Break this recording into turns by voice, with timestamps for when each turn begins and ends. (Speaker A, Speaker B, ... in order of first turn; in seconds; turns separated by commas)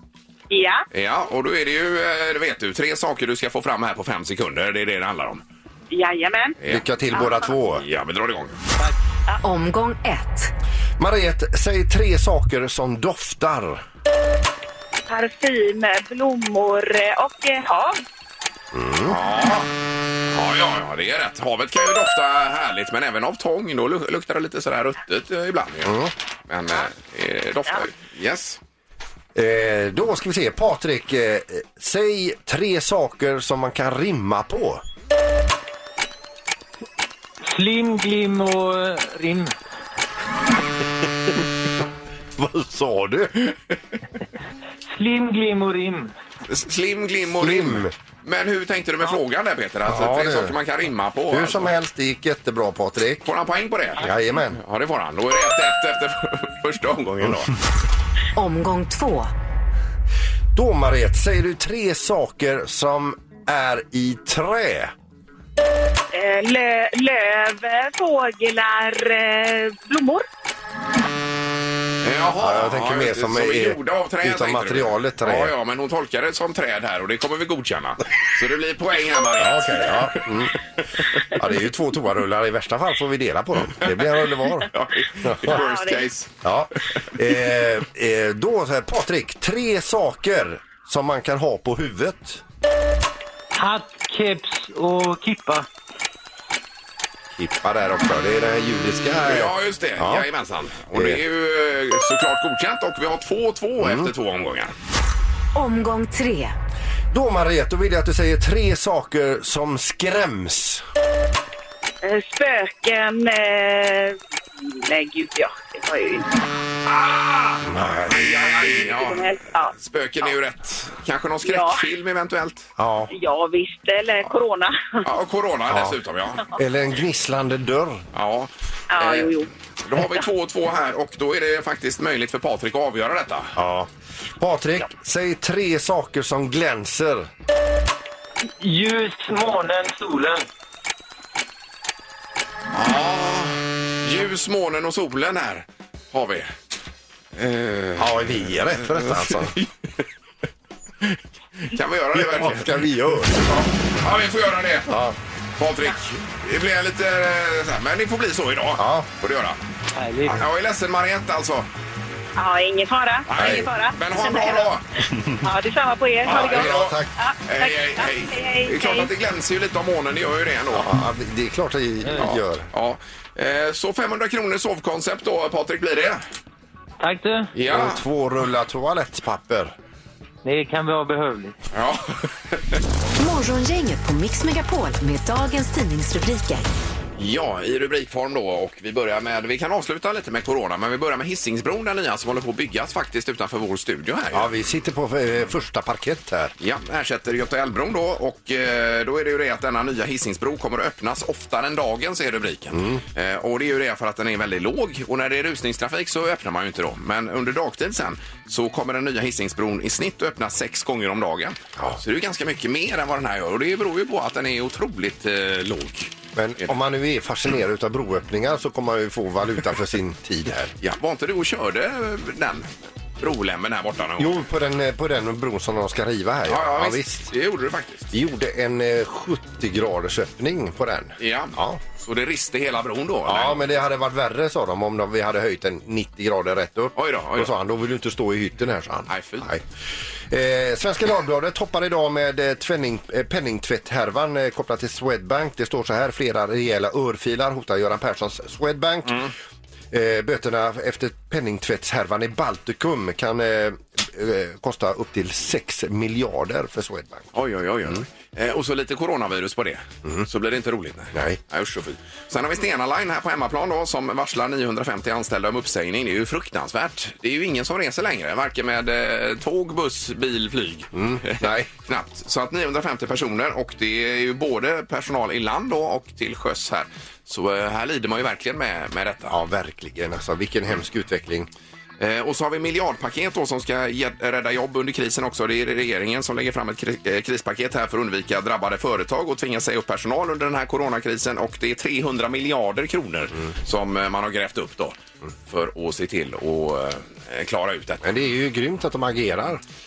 Speaker A: 0.5-0.8, Speaker B: 0.9-5.4, Speaker A: 5.9-6.6, Speaker C: 6.6-7.8, Speaker B: 7.8-8.6, Speaker D: 9.4-10.5, Speaker C: 11.0-13.8, Speaker A: 15.1-18.0, Speaker C: 18.7-19.2, Speaker B: 19.0-19.7, Speaker B: 20.3-25.9, Speaker C: 25.8-26.1, Speaker B: 26.5-28.6, Speaker C: 29.3-34.8, Speaker E: 37.4-39.5, Speaker C: 42.4-43.3, Speaker E: 44.9-46.1, Speaker B: 46.5-51.7, Speaker C: 47.4-47.9, Speaker C: 49.9-50.6, Speaker C: 51.3-53.3, Speaker B: 53.2-57.5, Speaker C: 54.0-54.6, Speaker C: 57.2-57.5, Speaker D: 58.3-59.3, Speaker C: 60.5-64.9, Speaker A: 66.1-70.2, Speaker B: 72.0-80.1, Speaker C: 72.4-75.5, Speaker C: 79.4-80.6, Speaker C: 81.3-84.7, Speaker B: 84.7-86.3, Speaker C: 85.2-85.6, Speaker A: 85.5-86.1, Speaker C: 86.4-92.4, Speaker E: 93.5-95.7, Speaker C: 97.3-100.2, Speaker B: 99.2-104.7, Speaker C: 100.9-101.2, Speaker C: 103.8-104.1, Speaker D: 105.5-106.6, Speaker C: 107.1-110.8, Speaker A: 112.0-116.3, Speaker B: 116.9-122.7, Speaker C: 117.6-118.7, Speaker A: 118.6-119.7, Speaker A: 121.4-121.8, Speaker C: 122.8-123.1, Speaker A: 123.1-125.1, Speaker B: 125.0-126.4, Speaker C: 125.7-126.0, Speaker C: 126.5-128.1, Speaker B: 128.1-129.3, Speaker A: 128.9-129.5, Speaker B: 129.8-133.5, Speaker C: 133.6-137.3, Speaker E: 138.6-140.4, Speaker B: 142.7-146.5, Speaker B: 147.3-149.7, Speaker C: 148.0-149.6, Speaker B: 151.7-154.9, Speaker C: 152.1-153.4, Speaker C: 154.9-155.2, Speaker B: 155.6-159.6, Speaker C: 158.8-159.1, Speaker E: 159.9-160.4, Speaker B: 160.2-161.7, Speaker A: 162.4-164.7, Speaker B: 163.3-164.8, Speaker C: 163.3-163.7, Speaker A: 165.4-169.1, Speaker C: 166.2-167.1, Speaker B: 166.2-170.9, Speaker C: 170.7-172.7, Speaker E: 172.1-172.3, Speaker B: 172.2-176.2, Speaker E: 177.0-177.5, Speaker B: 177.5-178.0, Speaker C: 177.7-179.7, Speaker E: 180.4-181.6, Speaker B: 181.7-182.8, Speaker D: 183.2-186.7, Speaker B: 187.2-194.5, Speaker C: 194.3-196.5, Speaker B: 196.6-216.1, Speaker C: 202.7-203.0, Speaker C: 216.3-220.7, Speaker B: 220.8-224.4, Speaker C: 224.2-227.3, Speaker B: 226.5-228.1, Speaker C: 228.1-231.8, Speaker B: 231.2-233.6, Speaker C: 233.2-239.6, Speaker B: 236.9-237.5, Speaker B: 239.1-239.5, Speaker C: 240.3-249.3, Speaker B: 249.1-249.3, Speaker C: 249.9-257.3, Speaker B: 257.3-279.3, Speaker C: 261.1-261.4, Speaker C: 270.9-271.7, Speaker C: 279.3-281.5, Speaker B: 282.0-295.0, Speaker B: 295.5-298.2, Speaker C: 298.0-299.6